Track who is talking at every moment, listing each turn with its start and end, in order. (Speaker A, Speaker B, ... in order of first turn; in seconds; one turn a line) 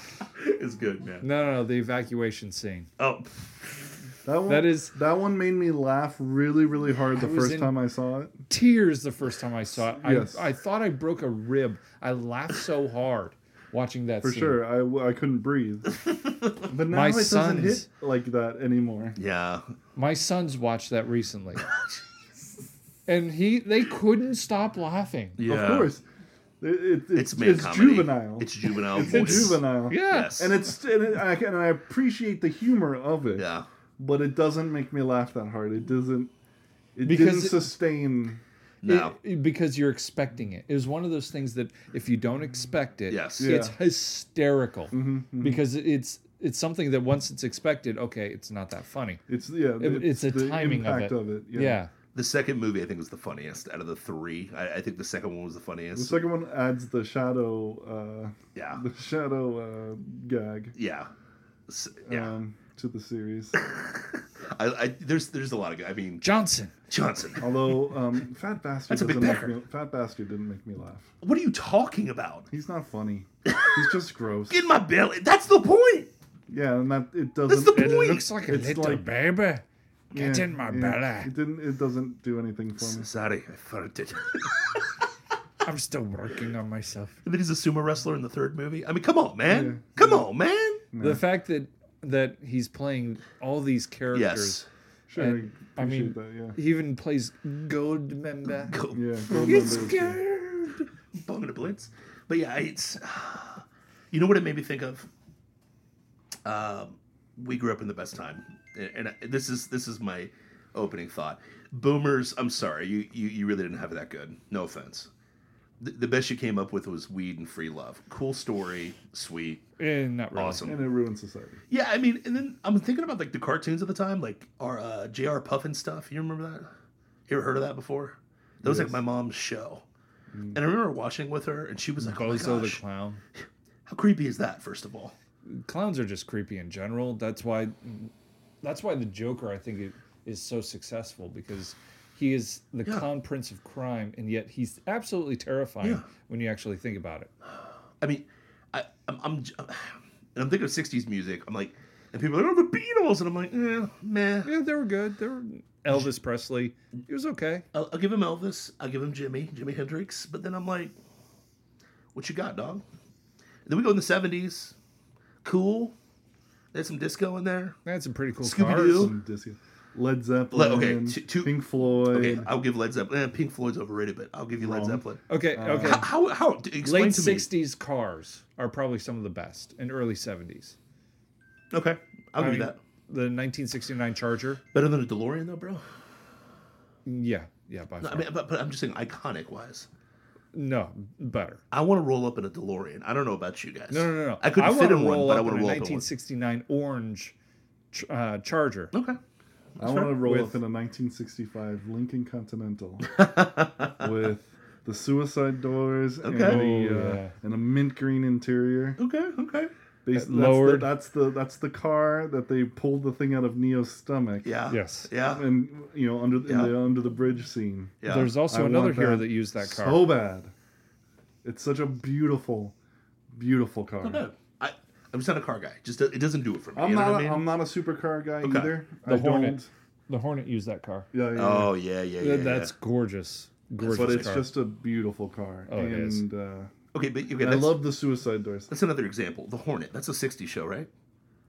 Speaker A: 0.4-1.2
Speaker B: 1.2-2.9
Speaker A: 3.0-4.0
Speaker C: 4.2-8.3
Speaker B: 4.5-4.9
Speaker B: 7.1-7.7
Speaker B: 8.5-14.6
Speaker C: 10.0-10.5
Speaker C: 14.2-15.9
Speaker A: 15.9-16.7
Speaker C: 16.7-19.2
Speaker B: 16.9-17.9
Speaker A: 19.2-19.6
Speaker B: 19.9-21.6
Speaker B: 23.1-25.4
Speaker A: 25.4-25.9
Speaker C: 25.5-26.0
Speaker C: 26.6-36.3
Speaker A: 27.1-30.5
Speaker B: 29.0-30.4
Speaker A: 33.4-33.6
Speaker C: 36.9-38.4
Speaker B: 37.0-37.7
Speaker A: 38.8-39.2
Speaker B: 38.8-49.2
Speaker A: 43.1-43.6
Speaker C: 43.4-43.8
Speaker C: 44.9-45.6
Speaker C: 49.3-51.8
Speaker B: 49.8-51.9
Speaker A: 52.1-56.2
Speaker C: 55.9-60.8
Speaker A: 58.5-58.8
Speaker A: 60.8-61.1
Speaker A: 61.7-62.3
Speaker C: 62.0-63.6
Speaker A: 63.6-66.2
Speaker B: 66.2-66.7
Speaker A: 66.9-67.6
Speaker C: 67.4-71.1
Speaker A: 68.9-69.5
Speaker A: 71.2-72.5
Speaker C: 72.5-74.6
Speaker A: 73.4-73.9
Speaker A: 74.5-76.1
Speaker C: 76.5-79.0
Speaker A: 77.5-78.3
Speaker B: 77.7-81.3
Speaker C: 80.1-83.1
Speaker A: 82.8-84.9
Speaker B: 85.6-87.2
Speaker A: 87.2-90.8
Speaker C: 89.5-90.2
Speaker C: 90.9-91.2
Speaker B: 91.0-94.6
Speaker A: 94.1-94.7
Speaker C: 95.1-96.6
Speaker B: 95.2-98.8
Speaker A: 98.5-100.2
Speaker C: 98.9-100.2
Speaker B: 99.3-100.8
Speaker A: 101.1-105.1
Speaker A: 106.4-115.1
Speaker A: 115.8-119.6
Speaker B: 119.8-120.7
Speaker A: 120.3-120.8
Speaker C: 120.6-121.6
Speaker A: 121.7-126.7
Speaker A: 127.3-129.8
Speaker C: 128.6-129.0
Speaker C: 130.3-130.6
Speaker A: 130.5-132.8
Speaker B: 132.1-133.2
Speaker A: 133.9-135.2
Speaker B: 135.5-147.3
Speaker A: 148.0-154.5
Speaker B: 154.4-157.6
Speaker A: 157.7-160.9
Speaker A: 162.1-162.8
Speaker A: 163.7-164.7
Speaker A: 165.4-165.9
Speaker A: 166.7-167.8
Speaker B: 167.8-169.1
Speaker A: 168.4-169.1
Speaker C: 168.6-172.5
Speaker A: 170.5-171.5
Speaker A: 172.0-177.5
Speaker C: 174.6-175.0
Speaker B: 175.3-176.1
Speaker C: 175.5-176.1
Speaker B: 176.8-180.8
Speaker A: 181.7-182.8
Speaker B: 182.4-184.6
Speaker A: 184.7-185.8
Speaker B: 187.1-188.3
Speaker A: 188.0-189.9
Speaker B: 190.5-191.6
Speaker A: 191.7-196.0
Speaker B: 193.9-197.3
Speaker B: 197.9-198.9
Speaker A: 198.9-199.2
Speaker A: 199.8-200.2
Speaker C: 199.8-203.2
Speaker B: 200.2-200.6
Speaker A: 203.1-204.0
Speaker C: 204.0-209.0
Speaker A: 206.2-206.6
Speaker B: 206.4-207.3
Speaker A: 209.0-209.7
Speaker C: 210.0-214.6
Speaker B: 210.1-210.9
Speaker A: 214.4-215.5
Speaker B: 214.7-215.1
Speaker C: 215.2-220.5
Speaker A: 216.4-216.8
Speaker A: 218.0-218.3
Speaker B: 218.1-220.1
Speaker C: 221.4-222.7
Speaker C: 223.3-224.2
Speaker A: 224.0-227.5
Speaker C: 226.8-229.7
Speaker A: 228.4-228.7
Speaker B: 229.0-231.1
Speaker C: 231.1-231.7
Speaker A: 231.3-232.7
Speaker B: 232.2-234.5
Speaker A: 233.8-234.4
Speaker C: 233.9-236.7
Speaker B: 235.7-236.2
Speaker A: 236.9-237.8
Speaker C: 237.4-238.7
Speaker A: 238.7-240.9